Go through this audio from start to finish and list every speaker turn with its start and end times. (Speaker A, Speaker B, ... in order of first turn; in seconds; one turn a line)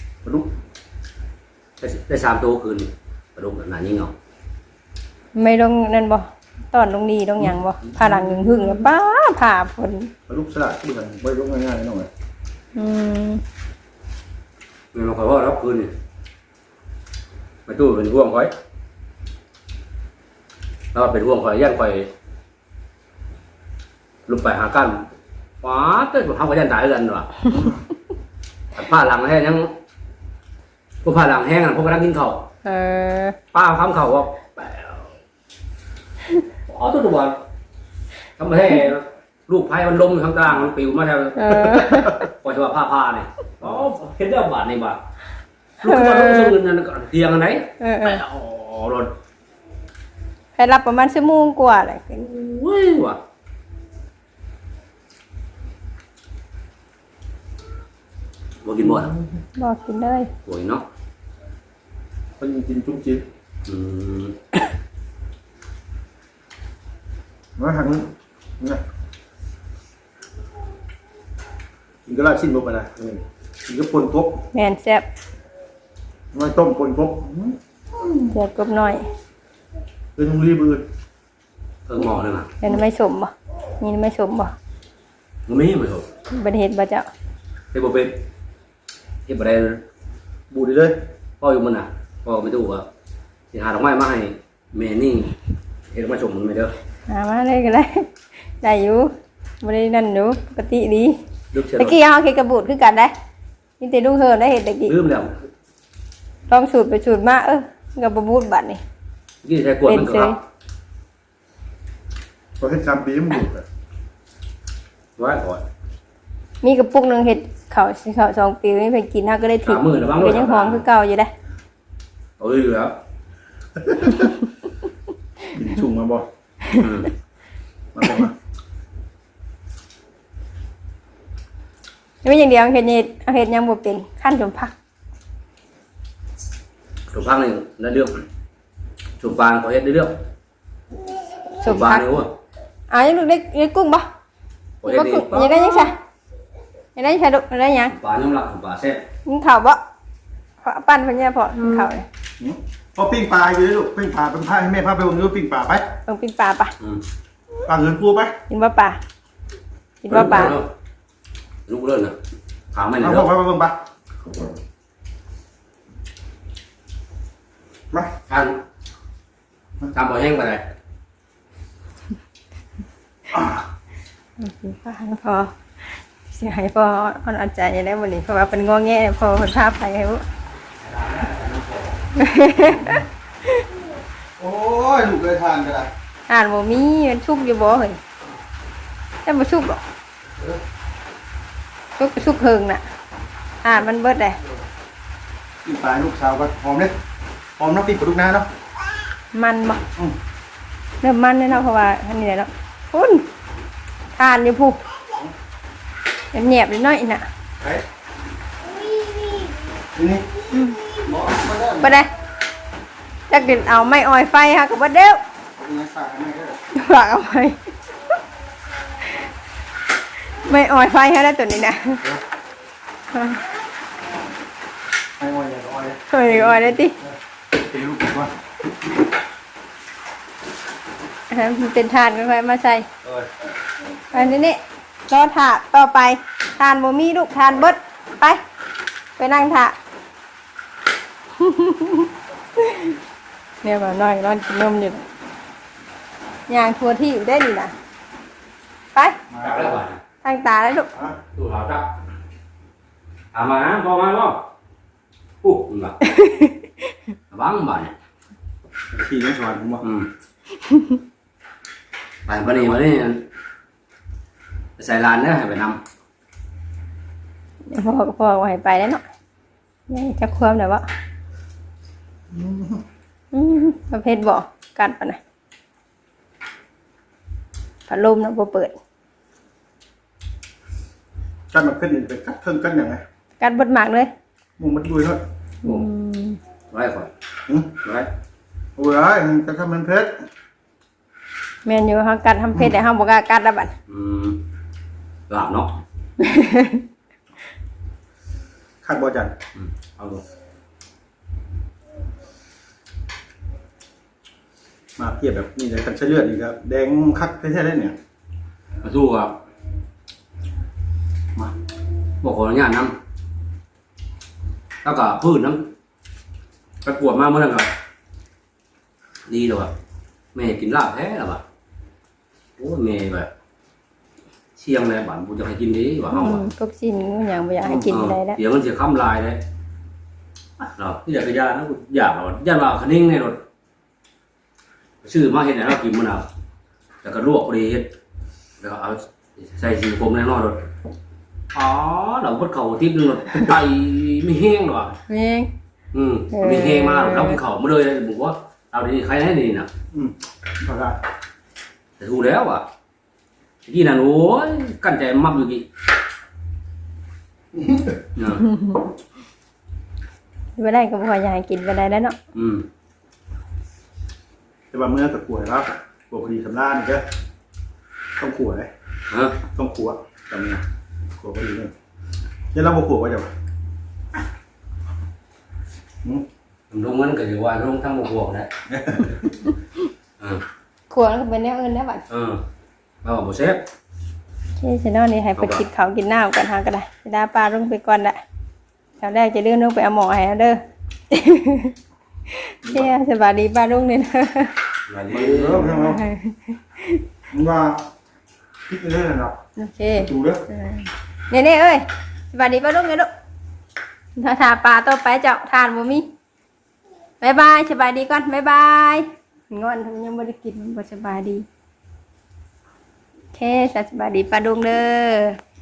Speaker A: 0.2-0.5
Speaker B: 1.8-4.1
Speaker C: 5.3-10.1
Speaker A: 10.3-12.1
Speaker C: 12.8-13.4
Speaker B: 14.9-15.9
Speaker B: 17.7-18.5
Speaker B: 20.9-22.1
Speaker B: 24.3-25.1
Speaker B: 25.6-27.7
Speaker B: 28.7-29.7
Speaker B: 31.0-32.4
Speaker C: 32.6-33.4
Speaker B: 33.5-34.5
Speaker B: 36.7-37.4
Speaker B: 38.4-45.0
Speaker C: 41.4-42.2
Speaker B: 45.8-49.1
Speaker C: 45.8-46.6
Speaker C: 47.8-48.2
Speaker C: 50.5-52.2
Speaker B: 52.2-53.2
Speaker B: 58.6-59.1
Speaker A: 58.8-59.2
Speaker C: 59.6-60.3
Speaker B: 60.5-60.8
Speaker A: 62.4-63.2
Speaker B: 63.7-64.3
Speaker A: 67.6-68.8
Speaker A: 72.0-74.4
Speaker C: 74.5-75.0
Speaker A: 76.3-78.3
Speaker C: 78.3-79.0
Speaker A: 80.2-80.8
Speaker B: 81.9-82.5
Speaker C: 82.6-84.5
Speaker B: 85.5-86.1
Speaker C: 86.3-87.1
Speaker B: 87.7-88.2
Speaker B: 89.3-89.8
Speaker A: 90.5-91.0
Speaker B: 91.4-92.9
Speaker B: 93.5-95.3
Speaker B: 95.9-96.7
Speaker C: 97.1-98.1
Speaker C: 98.6-99.1
Speaker C: 99.6-101.2
Speaker B: 101.5-102.0
Speaker C: 101.8-103.1
Speaker C: 103.8-104.9
Speaker B: 104.9-105.5
Speaker C: 106.5-108.8
Speaker B: 109.4-110.4
Speaker C: 109.9-110.4
Speaker A: 112.6-113.6
Speaker B: 115.2-115.6
Speaker C: 116.6-121.3
Speaker B: 119.6-120.8
Speaker B: 122.4-122.9
Speaker A: 123.8-124.3
Speaker A: 125.5-126.2
Speaker B: 126.8-127.1
Speaker A: 127.9-128.3
Speaker C: 132.2-134.7
Speaker B: 137.1-138.2
Speaker B: 139.2-140.2
Speaker C: 141.5-142.1
Speaker B: 141.6-142.3
Speaker C: 142.9-144.1
Speaker B: 144.8-145.9
Speaker C: 144.8-145.9
Speaker C: 146.9-147.9
Speaker B: 147.9-149.0
Speaker C: 149.2-149.8
Speaker C: 150.6-152.0
Speaker A: 152.4-155.8
Speaker C: 156.1-156.7
Speaker A: 157.6-158.3
Speaker C: 158.5-159.0
Speaker C: 160.0-160.6
Speaker B: 160.1-160.7
Speaker B: 161.7-162.2
Speaker B: 162.7-163.3
Speaker A: 163.0-163.8
Speaker B: 168.3-168.6
Speaker B: 169.9-170.6
Speaker A: 173.3-173.7
Speaker C: 174.4-175.5
Speaker C: 176.3-180.2
Speaker B: 180.8-181.9
Speaker C: 182.2-182.8
Speaker A: 182.6-183.0
Speaker A: 184.4-185.9
Speaker C: 186.3-188.0
Speaker C: 189.2-189.8
Speaker C: 191.9-192.8
Speaker C: 193.6-194.4
Speaker A: 195.6-196.9
Speaker A: 197.6-198.5
Speaker C: 199.3-199.8
Speaker C: 201.0-203.2
Speaker C: 204.2-204.8
Speaker C: 206.3-207.2
Speaker A: 209.9-210.3
Speaker C: 210.5-210.8
Speaker A: 210.9-212.0
Speaker C: 211.8-212.1
Speaker C: 213.3-215.2
Speaker A: 215.6-216.6
Speaker C: 216.7-217.6
Speaker C: 220.4-222.0
Speaker C: 223.1-223.4
Speaker A: 225.2-228.3
Speaker C: 226.1-227.0
Speaker C: 231.3-232.8
Speaker C: 234.1-238.4
Speaker C: 239.2-239.7
Speaker C: 241.4-242.9
Speaker C: 243.6-245.0
Speaker C: 246.5-247.7
Speaker A: 249.3-249.8
Speaker B: 249.4-250.0
Speaker C: 250.2-250.9
Speaker B: 251.3-251.9
Speaker B: 253.3-254.4
Speaker B: 255.4-256.0
Speaker C: 256.1-256.6
Speaker B: 257.3-257.9
Speaker A: 258.9-259.8
Speaker B: 259.8-260.1
Speaker B: 262.3-263.2
Speaker A: 262.4-262.8
Speaker B: 264.8-265.8
Speaker C: 267.7-269.0
Speaker C: 269.9-270.8
Speaker A: 272.3-272.8
Speaker C: 273.3-275.2
Speaker C: 277.9-278.8
Speaker A: 281.5-283.0
Speaker C: 283.4-284.1
Speaker A: 284.6-285.2
Speaker C: 285.6-286.4
Speaker B: 286.7-287.1
Speaker A: 287.5-287.8
Speaker B: 287.8-288.1
Speaker A: 288.8-290.2
Speaker C: 291.6-293.7
Speaker B: 293.9-294.4
Speaker B: 295.3-295.8
Speaker C: 296.2-296.8
Speaker A: 298.8-299.3
Speaker B: 299.6-300.2
Speaker A: 305.0-307.9
Speaker B: 308.8-309.3
Speaker B: 312.2-312.9
Speaker B: 314.8-315.7
Speaker B: 316.8-317.7
Speaker B: 319.3-319.7
Speaker B: 320.3-321.4
Speaker B: 322.6-323.3
Speaker B: 324.6-326.5
Speaker C: 326.1-328.4
Speaker B: 327.6-329.4
Speaker B: 330.6-333.4
Speaker B: 335.0-336.2
Speaker B: 337.0-337.9
Speaker B: 338.6-340.6
Speaker B: 341.5-344.9
Speaker C: 345.1-345.5
Speaker B: 345.9-349.7
Speaker C: 346.3-347.4
Speaker A: 349.9-351.0
Speaker B: 352.0-352.6
Speaker B: 353.6-355.7
Speaker A: 357.5-358.0
Speaker B: 358.1-358.5
Speaker C: 360.6-362.2
Speaker B: 362.3-362.7
Speaker A: 364.7-367.0
Speaker A: 368.2-368.7
Speaker B: 369.1-369.4
Speaker A: 369.5-370.6
Speaker A: 371.2-371.7
Speaker A: 372.5-373.3
Speaker B: 376.7-378.5
Speaker A: 378.7-379.2
Speaker C: 380.9-382.0
Speaker B: 382.1-382.4
Speaker B: 383.0-383.6
Speaker C: 384.6-388.2
Speaker B: 385.4-385.6
Speaker C: 389.0-390.6
Speaker C: 391.1-391.7
Speaker C: 392.4-394.6
Speaker B: 394.9-395.7
Speaker A: 395.1-396.0
Speaker C: 395.7-397.0
Speaker A: 397.3-397.8
Speaker A: 398.7-399.4
Speaker C: 399.6-403.1
Speaker A: 399.9-400.4
Speaker C: 404.1-406.0
Speaker C: 407.2-411.4
Speaker C: 413.3-415.4